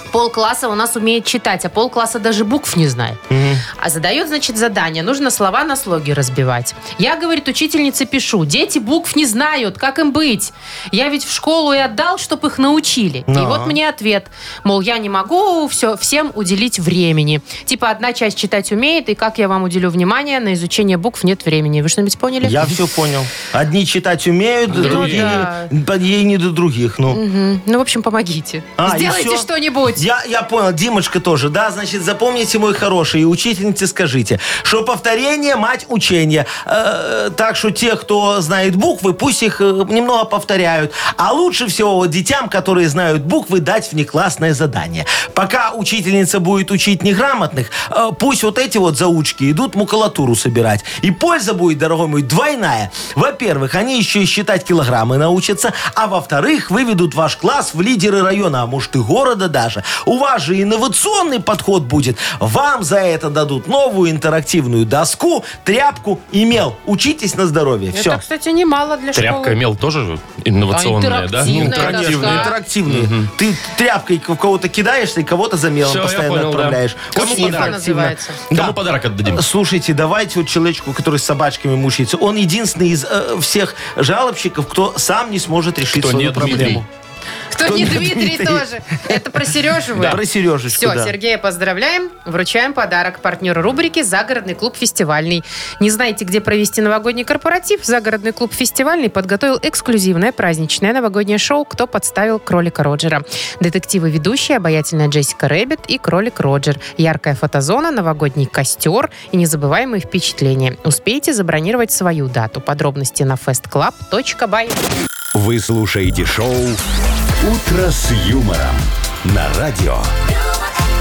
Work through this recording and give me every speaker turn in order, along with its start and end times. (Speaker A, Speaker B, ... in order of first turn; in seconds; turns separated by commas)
Speaker A: 0.1-3.2, Speaker B: 3.3-3.6, Speaker A: 3.8-22.8, Speaker B: 13.3-13.8, Speaker B: 22.4-27.2, Speaker C: 24.7-25.4, Speaker A: 24.7-25.7, Speaker A: 27.1-30.0, Speaker B: 28.8-68.2, Speaker A: 67.9-69.6, Speaker C: 69.1-73.3, Speaker A: 70.7-72.5, Speaker B: 71.4-78.8, Speaker C: 75.8-78.0, Speaker A: 77.1-78.4, Speaker C: 78.5-79.4, Speaker B: 79.3-86.8, Speaker C: 85.9-86.8, Speaker A: 87.5-90.2, Speaker B: 87.6-89.2, Speaker B: 89.9-91.1, Speaker A: 90.7-114.8, Speaker D: 115.3-116.8, Speaker D: 117.4-120.1